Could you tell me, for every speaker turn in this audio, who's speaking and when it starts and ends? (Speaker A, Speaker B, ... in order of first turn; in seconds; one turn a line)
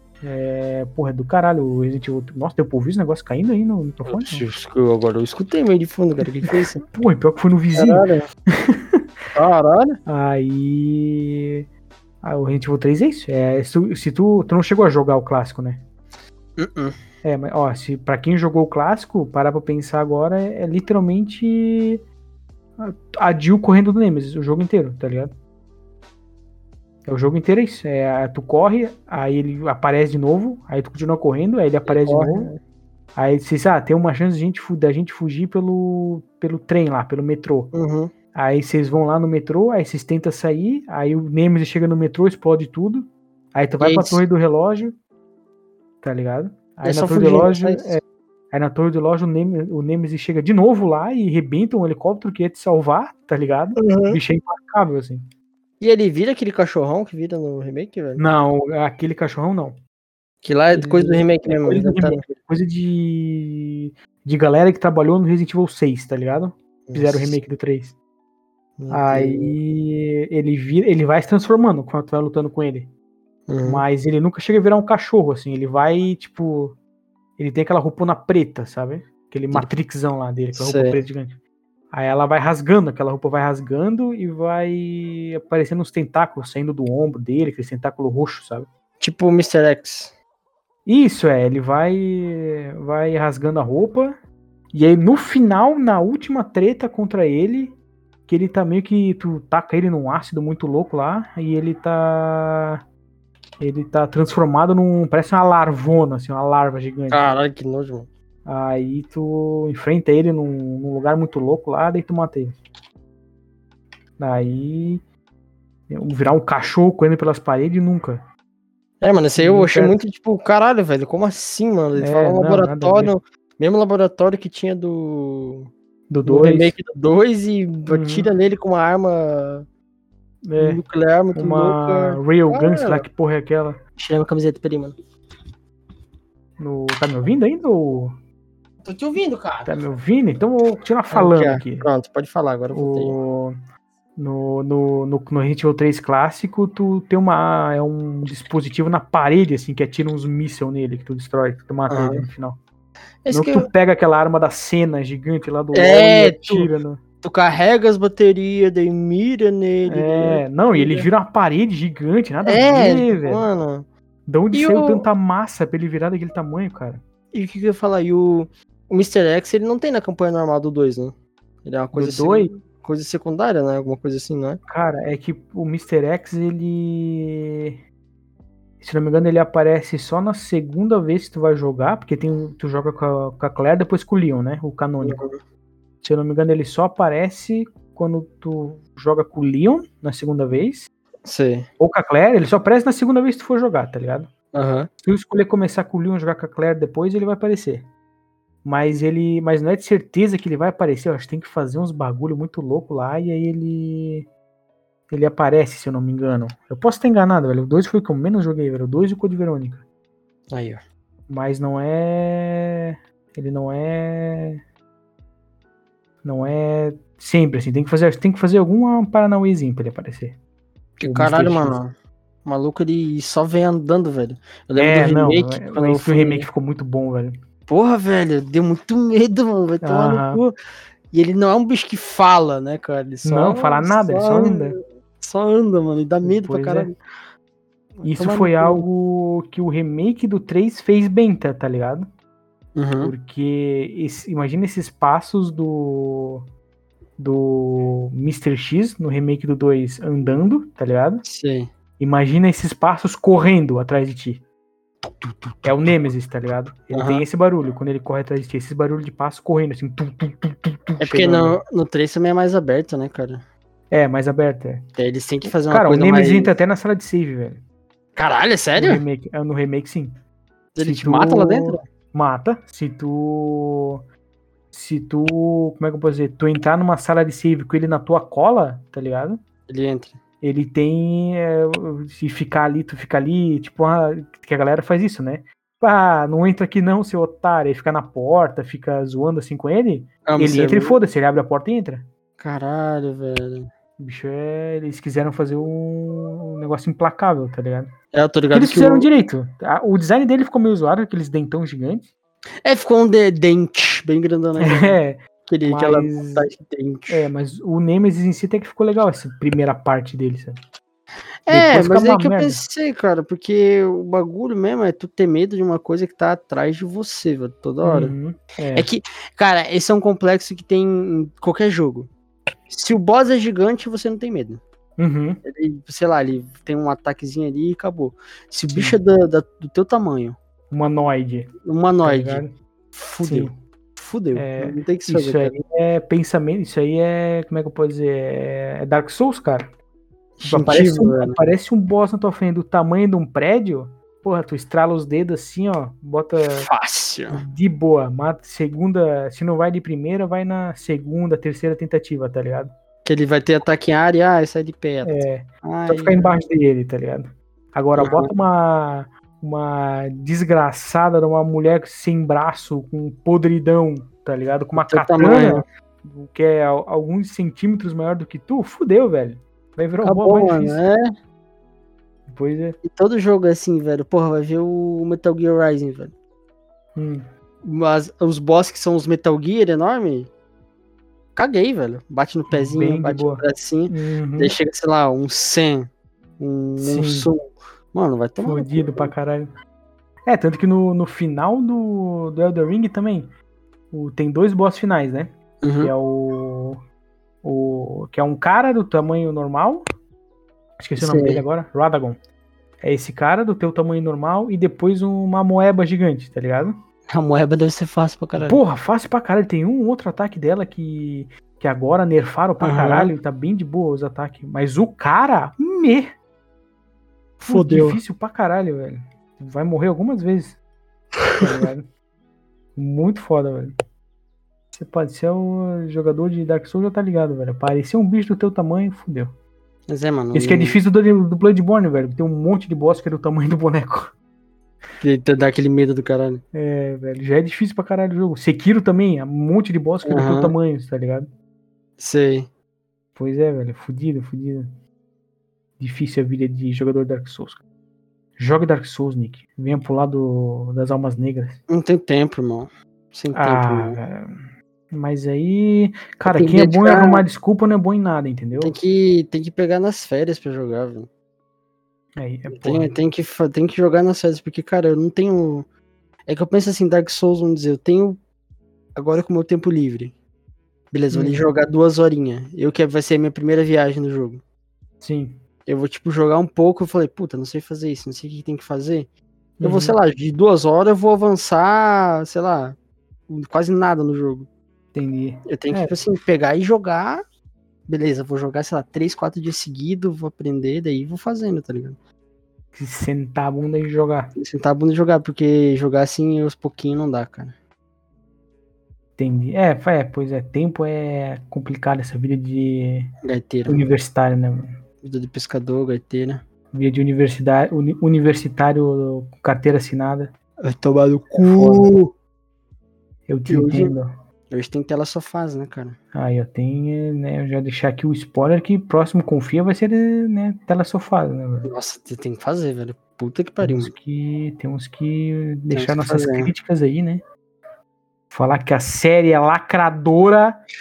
Speaker A: 0.2-4.5
Speaker B: 4.1-6.8
Speaker A: 6.4-9.0
Speaker B: 7.8-8.3
Speaker B: 9.3-10.0
Speaker A: 10.1-11.7
Speaker A: 12.2-15.9
Speaker B: 16.6-17.0
Speaker A: 17.2-22.0
Speaker A: 22.8-25.3
Speaker A: 27.1-32.5
Speaker B: 31.9-32.6
Speaker A: 33.2-37.7
Speaker B: 37.7-38.1
Speaker A: 38.3-45.0
Speaker B: 43.8-44.2
Speaker A: 46.0-55.2
Speaker B: 46.8-48.0
Speaker B: 53.8-54.2
Speaker B: 55.8-58.2
Speaker A: 58.2-59.8
Speaker B: 60.4-62.2
Speaker A: 60.7-68.0
Speaker B: 66.9-67.4
Speaker B: 68.8-69.6
Speaker A: 68.9-72.9
Speaker B: 73.5-73.8
Speaker A: 73.6-76.8
Speaker A: 77.4-81.4
Speaker B: 80.5-81.0
Speaker A: 81.9-88.7
Speaker B: 89.0-90.1
Speaker A: 90.9-94.2
Speaker A: 94.7-97.8
Speaker A: 98.3-102.8
Speaker A: 103.6-107.3
Speaker B: 107.1-108.1
Speaker A: 108.5-112.5
Speaker A: 114.2-115.0
Speaker A: 115.9-118.2
Speaker B: 119.0-125.7
Speaker A: 119.4-120.0
Speaker A: 122.0-123.1
Speaker A: 126.1-126.8
Speaker B: 126.2-129.7
Speaker A: 127.9-128.3
Speaker A: 130.4-130.8
Speaker B: 130.6-133.1
Speaker A: 131.3-133.8
Speaker B: 134.0-134.9
Speaker A: 136.6-138.1
Speaker B: 138.8-139.8
Speaker A: 139.7-141.9
Speaker B: 141.1-143.2
Speaker A: 142.7-143.6
Speaker A: 144.2-152.6
Speaker B: 151.9-152.2
Speaker B: 153.2-153.7
Speaker A: 153.3-157.0
Speaker B: 155.7-156.7
Speaker B: 157.2-161.1
Speaker A: 159.8-163.5
Speaker B: 162.4-163.9
Speaker A: 164.3-167.0
Speaker B: 164.5-165.1
Speaker B: 167.3-174.6
Speaker A: 171.9-172.6
Speaker A: 174.7-177.8
Speaker A: 178.8-185.2
Speaker B: 185.0-185.4
Speaker A: 186.0-190.9
Speaker B: 191.2-191.7
Speaker A: 191.8-194.3
Speaker B: 194.5-194.9
Speaker A: 195.0-197.9
Speaker A: 198.6-204.3
Speaker A: 205.1-209.8
Speaker B: 210.5-210.8
Speaker A: 211.3-214.6
Speaker A: 216.2-220.4
Speaker B: 221.0-221.9
Speaker A: 221.0-221.8
Speaker B: 222.4-226.5
Speaker A: 224.8-227.3
Speaker B: 227.7-230.5
Speaker A: 229.8-230.4
Speaker B: 231.1-237.0
Speaker A: 233.2-234.8
Speaker A: 236.2-236.9
Speaker B: 238.0-238.9
Speaker A: 238.0-242.1
Speaker B: 242.8-243.1
Speaker A: 243.0-246.4
Speaker A: 247.2-251.2
Speaker B: 251.2-251.7
Speaker A: 252.0-254.4
Speaker B: 255.2-255.7
Speaker A: 255.6-261.6
Speaker B: 256.9-257.2
Speaker B: 261.0-263.4
Speaker A: 263.9-264.9
Speaker B: 265.0-266.5
Speaker A: 265.4-267.6
Speaker B: 268.2-269.0
Speaker A: 268.8-270.1
Speaker B: 270.8-271.8
Speaker A: 270.8-274.0
Speaker A: 274.7-279.4
Speaker B: 279.7-280.2
Speaker A: 280.4-292.1
Speaker B: 290.3-291.0
Speaker B: 292.4-293.7
Speaker A: 294.0-297.9
Speaker B: 298.1-299.1
Speaker A: 298.5-302.1
Speaker B: 302.6-307.3
Speaker A: 304.6-306.5
Speaker A: 307.1-310.5
Speaker B: 311.5-318.1
Speaker A: 311.5-312.6
Speaker A: 317.8-318.9
Speaker B: 318.8-322.1
Speaker B: 322.7-324.6
Speaker A: 325.0-325.4
Speaker B: 325.4-330.4
Speaker A: 328.7-329.0
Speaker A: 330.7-331.5
Speaker B: 331.6-335.6
Speaker A: 332.0-332.5
Speaker A: 333.2-333.5
Speaker A: 334.4-339.7
Speaker B: 340.4-341.4
Speaker A: 340.4-346.7
Speaker B: 346.5-347.4
Speaker A: 347.3-352.7
Speaker B: 353.1-356.3
Speaker A: 355.0-370.8
Speaker B: 358.0-358.3
Speaker B: 364.8-365.6
Speaker B: 370.0-371.0
Speaker A: 372.3-372.8
Speaker B: 372.8-376.1
Speaker A: 377.0-377.2
Speaker B: 377.6-380.3
Speaker B: 381.4-387.4
Speaker A: 382.5-384.6
Speaker A: 386.8-387.3
Speaker B: 387.9-389.1
Speaker A: 388.4-389.5
Speaker A: 390.3-393.3
Speaker A: 393.9-396.8
Speaker B: 395.6-395.9
Speaker A: 397.4-399.8
Speaker A: 400.8-402.2
Speaker B: 401.0-401.4
Speaker A: 402.8-406.7
Speaker B: 407.1-408.6
Speaker A: 408.4-416.1
Speaker B: 412.6-413.1
Speaker A: 417.4-420.6
Speaker B: 417.4-418.0
Speaker A: 421.4-421.9
Speaker A: 422.8-423.7
Speaker A: 424.7-429.3
Speaker B: 429.9-430.8
Speaker A: 430.3-434.1
Speaker B: 435.0-436.4
Speaker A: 436.5-441.3
Speaker B: 440.1-440.5
Speaker B: 442.0-442.5
Speaker A: 443.1-444.7
Speaker A: 445.8-447.6
Speaker A: 448.4-451.6
Speaker B: 451.7-454.0
Speaker A: 453.3-454.3
Speaker A: 454.9-458.8
Speaker B: 456.2-457.2
Speaker B: 458.6-461.1
Speaker A: 462.2-463.0
Speaker B: 462.5-465.7
Speaker B: 466.3-468.2
Speaker B: 468.9-470.2
Speaker B: 470.9-474.4
Speaker A: 471.1-471.5
Speaker A: 475.0-475.4
Speaker B: 475.7-479.1
Speaker A: 479.6-480.0
Speaker B: 479.6-482.8
Speaker B: 483.3-484.5
Speaker A: 484.9-486.1
Speaker B: 485.5-487.2
Speaker B: 487.9-492.0
Speaker A: 492.7-494.3
Speaker B: 494.4-497.6
Speaker A: 499.2-503.1
Speaker B: 503.2-503.9
Speaker A: 503.7-504.8
Speaker B: 505.0-506.4
Speaker A: 506.7-510.3
Speaker B: 510.6-512.1
Speaker A: 511.4-511.9
Speaker A: 513.3-514.1
Speaker B: 513.5-514.0
Speaker B: 514.5-516.0
Speaker A: 516.1-521.7
Speaker B: 521.6-523.9
Speaker A: 523.6-527.2
Speaker B: 525.7-526.5
Speaker A: 528.3-530.6